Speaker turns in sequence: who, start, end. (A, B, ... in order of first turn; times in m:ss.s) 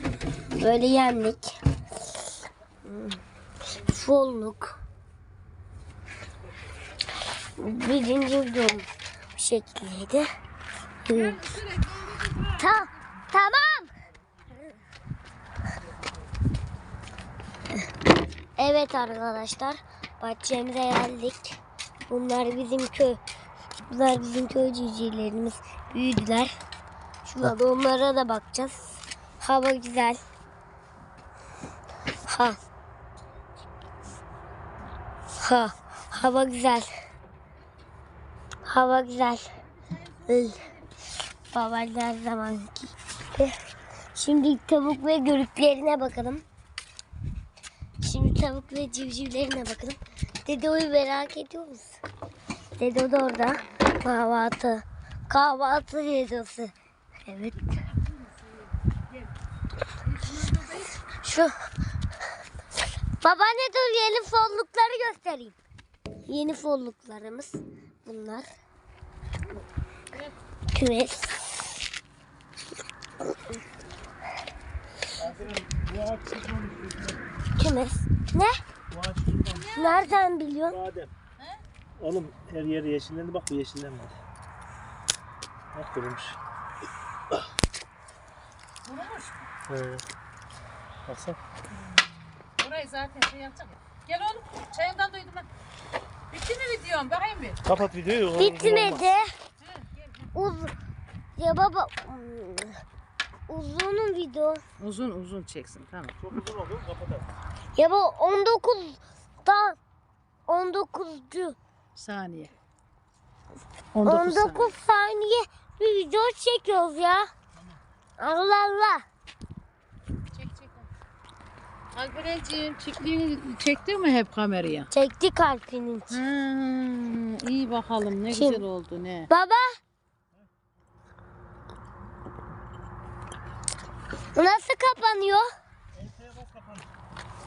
0:00.5-0:01.5 A
0:02.8-0:04.8 A
0:07.6-0:10.2 A
0:11.1-0:11.5 A
0:11.1-0:12.8 B
0:12.5-0:13.9 A
0:18.6-0:23.2 A
0:23.8-0:26.5 A
0:27.2-0:30.2 A
0:32.2-0:32.6 A
0:35.4-0:36.9 A
0:38.6-0:39.5 A
0:40.2-0:40.7 A
0:41.5-0:43.5 A
0:44.1-0:46.4 A
0:48.0-0:52.0 A
0:52.8-0:56.7 A
0:57.2-0:57.8 A
0:58.1-0:59.3 B
1:00.0-1:00.9 B
1:01.1-1:01.5 A
1:03.2-1:05.6 A
1:06.3-1:08.5 A
1:10.7-1:11.7 A
1:15.2-1:15.5 B
1:15.3-1:17.2 C
1:17.6-1:18.5 A
1:18.9-1:19.5 C
1:19.4-1:20.2 B
1:19.7-1:20.8 A
1:20.8-1:21.1 C
1:22.0-1:24.2 C
1:25.7-1:26.4 C
1:28.8-1:29.4 B
1:29.7-1:30.0 C
1:31.1-1:31.4 C
1:32.6-1:35.5 B
1:36.3-1:37.6 B
1:37.7-1:39.0 C
1:38.3-1:39.3 A
1:39.6-1:40.3 B
1:40.3-1:40.7 A
1:41.4-1:42.8 A
1:43.5-1:44.6 A
1:44.8-1:46.6 B
1:46.4-1:47.2 C
1:47.8-1:49.8 A
1:50.5-1:51.6 A
1:52.0-1:52.5 B
1:53.9-1:54.7 B
1:54.0-1:57.3 A
1:58.2-1:59.0 A
2:00.3-2:00.9 B
2:01.9-2:04.9 B
2:04.9-2:06.2 A
2:06.1-2:09.3 B
2:08.3-2:08.6 A
2:09.3-2:09.8 A
2:14.3-2:15.5 A
2:16.0-2:16.8 C